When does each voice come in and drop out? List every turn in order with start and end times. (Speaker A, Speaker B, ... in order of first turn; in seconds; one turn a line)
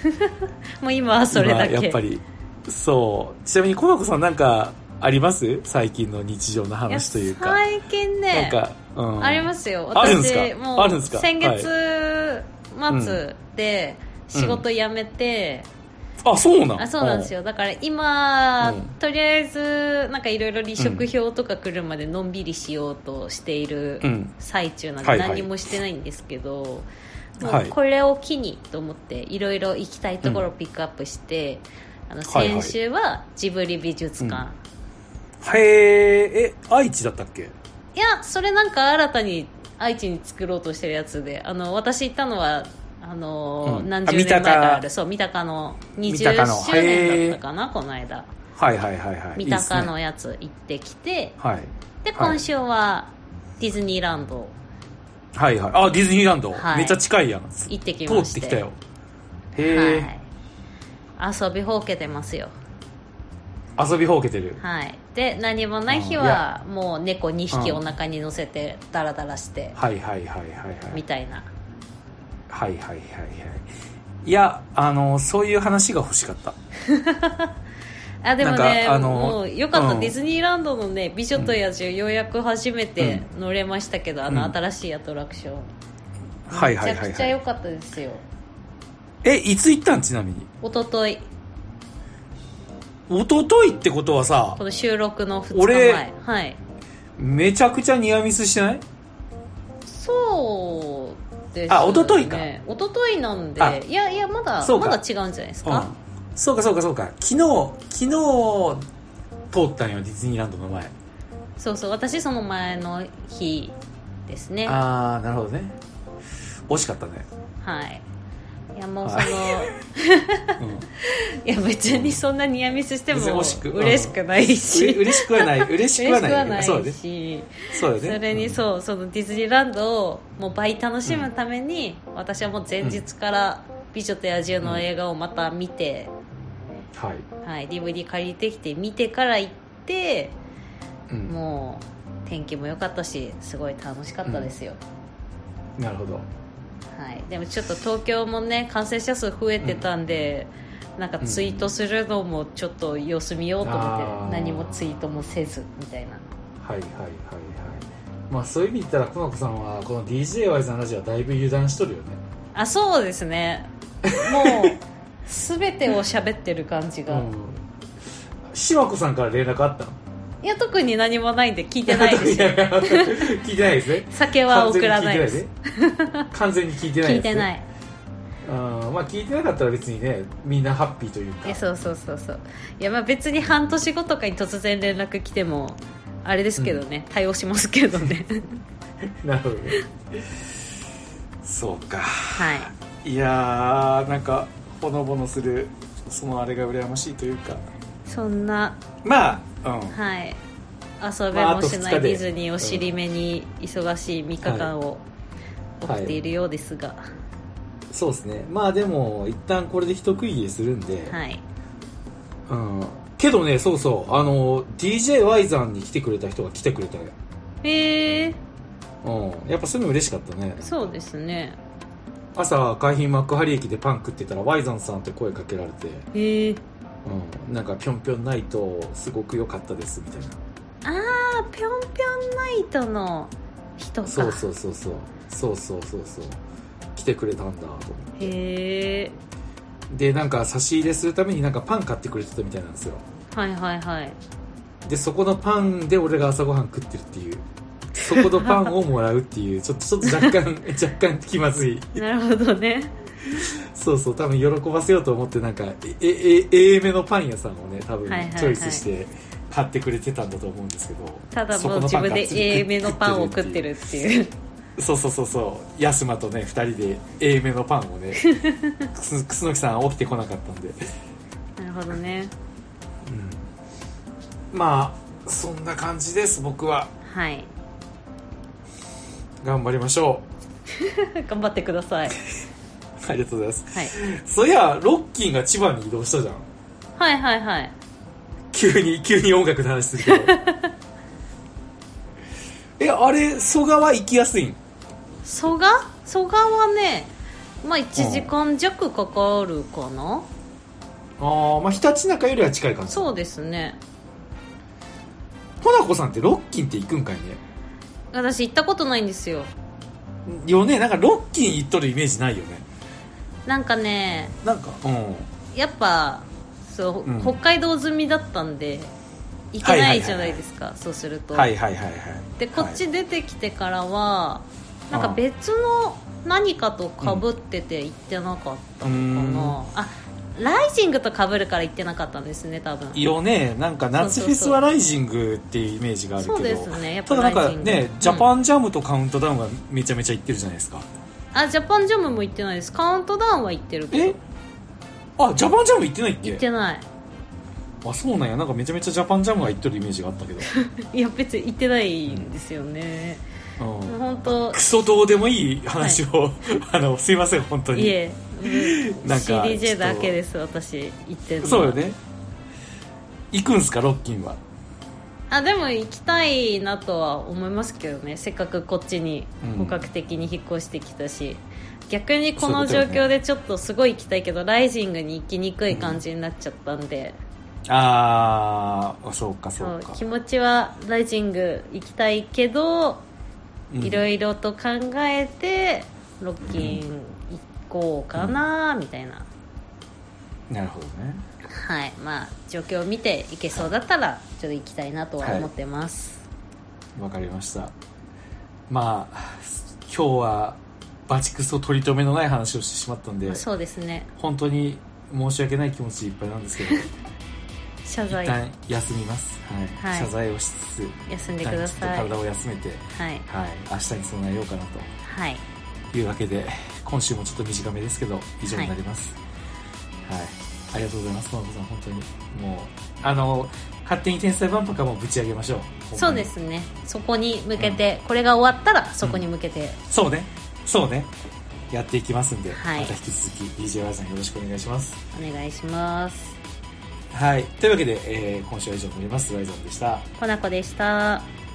Speaker A: 0.1-2.0
Speaker B: 1.3-7.6
Speaker A: 6.9-8.6
Speaker B: 8.3-11.7
Speaker A: 9.2-15.7
Speaker B: 12.9-13.2
Speaker B: 14.3-14.6
Speaker B: 16.2-17.3
Speaker A: 16.8-26.9
Speaker B: 18.6-18.9
Speaker B: 20.8-21.1
Speaker B: 24.0-24.3
Speaker B: 25.0-25.5
Speaker A: 27.4-34.6
Speaker B: 27.4-27.7
Speaker B: 32.2-32.7
Speaker B: 35.4-37.5
Speaker A: 37.9-48.3
Speaker B: 43.6-44.8
Speaker B: 46.0-47.4
Speaker B: 48.5-49.9
Speaker A: 49.4-51.3
Speaker B: 51.4-52.4
Speaker A: 52.0-54.5
Speaker B: 55.3-58.8
Speaker A: 56.5-57.0
Speaker A: 57.7-58.6
Speaker B: 59.5-60.1
Speaker A: 59.6-60.2
Speaker A: 61.2-62.5
Speaker B: 63.8-64.6
Speaker A: 64.6-69.8
Speaker B: 65.9-66.4
Speaker B: 67.5-67.8
Speaker B: 69.7-71.0
Speaker A: 70.9-71.5
Speaker B: 72.5-73.7
Speaker B: 74.2-76.5
Speaker A: 76.9-77.5
Speaker A: 78.2-85.7
Speaker B: 78.4-80.2
Speaker B: 83.0-83.2
Speaker B: 84.3-84.5
Speaker B: 86.5-87.4
Speaker A: 86.5-88.2
Speaker B: 89.2-90.5
Speaker A: 90.6-91.2
Speaker B: 93.1-94.6
Speaker A: 94.6-96.6
Speaker B: 95.5-96.0
Speaker B: 97.2-98.8
Speaker A: 99.8-105.9
Speaker B: 101.7-102.5
Speaker B: 104.6-105.0
Speaker B: 105.6-108.8
Speaker B: 109.5-110.9
Speaker A: 111.6-113.7
Speaker A: 114.3-114.8
Speaker B: 114.7-115.8
Speaker B: 116.7-117.3
Speaker A: 117.6-118.0
Speaker A: 118.7-136.1
Speaker B: 119.0-119.7
Speaker B: 120.6-120.9
Speaker B: 121.8-122.2
Speaker B: 123.1-124.2
Speaker B: 124.7-127.0
Speaker B: 127.7-128.6
Speaker B: 136.9-137.2
Speaker A: 137.4-140.4
Speaker B: 141.1-141.3
Speaker A: 141.3-144.8
Speaker B: 144.2-144.5
Speaker B: 145.8-146.3
Speaker A: 146.9-156.2
Speaker B: 149.6-149.9
Speaker B: 151.2-151.7
Speaker B: 153.6-155.4
Speaker B: 156.6-162.2
Speaker A: 162.5-167.3
Speaker B: 164.0-164.7
Speaker B: 167.1-167.6
Speaker B: 168.5-170.0
Speaker A: 170.4-173.3
Speaker B: 171.8-175.5
Speaker A: 174.1-176.2
Speaker B: 176.3-177.5
Speaker A: 177.0-177.6
Speaker B: 178.4-181.6
Speaker A: 181.4-188.6
Speaker B: 186.6-186.8
Speaker B: 189.2-189.8
Speaker B: 191.4-197.7
Speaker A: 192.3-192.7
Speaker A: 198.1-198.8
Speaker B: 199.0-200.0
Speaker A: 199.9-200.4
Speaker A: 201.0-205.0
Speaker B: 201.3-202.9
Speaker B: 204.4-204.7
Speaker A: 205.8-207.0
Speaker B: 205.8-206.2
Speaker B: 207.9-211.2
Speaker A: 211.1-211.4
Speaker B: 212.5-217.1
Speaker A: 217.6-218.4
Speaker B: 219.0-220.9
Speaker A: 220.6-221.6
Speaker B: 222.3-226.1
Speaker A: 226.1-226.6
Speaker B: 227.0-230.4
Speaker A: 230.8-234.4
Speaker B: 234.1-236.4
Speaker B: 236.9-238.3
Speaker A: 238.2-239.1
Speaker B: 239.9-243.0
Speaker A: 243.3-244.2
Speaker B: 244.8-247.4
Speaker B: 248.0-252.0
Speaker A: 248.1-248.7
Speaker A: 250.0-250.3
Speaker A: 251.9-252.9
Speaker B: 253.3-263.7
Speaker A: 258.1-258.8
Speaker A: 261.3-264.3
Speaker B: 264.8-268.2
Speaker A: 268.2-268.9
Speaker B: 268.9-270.8
Speaker A: 271.6-272.3
Speaker B: 273.0-273.4
Speaker B: 274.5-276.9
Speaker A: 277.0-277.5
Speaker B: 279.4-280.3
Speaker A: 280.8-282.2
Speaker B: 283.0-286.5
Speaker A: 287.0-287.7
Speaker B: 288.5-290.3
Speaker A: 290.0-290.7
Speaker B: 292.8-294.6
Speaker A: 295.2-300.3
Speaker B: 297.9-298.3
Speaker B: 301.2-303.1
Speaker A: 302.9-303.8
Speaker B: 305.6-307.4
Speaker A: 308.1-309.5
Speaker B: 310.2-312.6
Speaker A: 313.4-314.3
Speaker B: 314.4-315.3
Speaker A: 315.5-318.9
Speaker B: 317.1-317.4
Speaker A: 319.5-321.5
Speaker B: 319.6-320.4
Speaker B: 321.3-322.8
Speaker A: 322.4-333.1
Speaker B: 324.9-325.2
Speaker B: 328.8-329.6
Speaker B: 332.9-340.9
Speaker A: 333.9-334.6
Speaker A: 336.2-338.3
Speaker A: 341.3-344.2
Speaker B: 345.2-346.4
Speaker A: 346.2-346.8
Speaker B: 347.8-350.5
Speaker A: 350.4-353.2
Speaker B: 352.1-352.4
Speaker B: 353.6-360.2
Speaker A: 353.9-354.6
Speaker A: 357.7-361.8
Speaker B: 361.4-362.0
Speaker B: 363.3-364.4
Speaker A: 365.3-377.2
Speaker B: 369.4-369.9
Speaker B: 372.4-373.1
Speaker B: 375.7-376.0
Speaker B: 377.7-380.0
Speaker A: 379.6-383.0
Speaker B: 383.7-384.1
Speaker A: 383.8-389.3
Speaker B: 386.4-386.8
Speaker B: 388.1-388.4
Speaker B: 390.5-391.2
Speaker A: 391.5-396.2
Speaker B: 395.2-395.5
Speaker B: 396.9-397.7
Speaker B: 398.7-403.4
Speaker A: 403.2-404.1
Speaker B: 404.1-406.9
Speaker A: 407.8-408.4
Speaker B: 408.1-414.9
Speaker A: 409.8-410.1
Speaker A: 411.1-412.1
Speaker A: 412.9-413.2
Speaker A: 415.0-415.4
Speaker B: 415.9-419.2
Speaker A: 418.5-418.7
Speaker B: 420.0-426.3
Speaker A: 425.9-429.8
Speaker B: 427.6-427.8
Speaker B: 429.0-429.3
Speaker B: 429.9-431.1
Speaker B: 431.7-435.0
Speaker A: 432.5-432.9
Speaker A: 435.1-436.4
Speaker B: 437.1-440.1
Speaker A: 440.2-441.3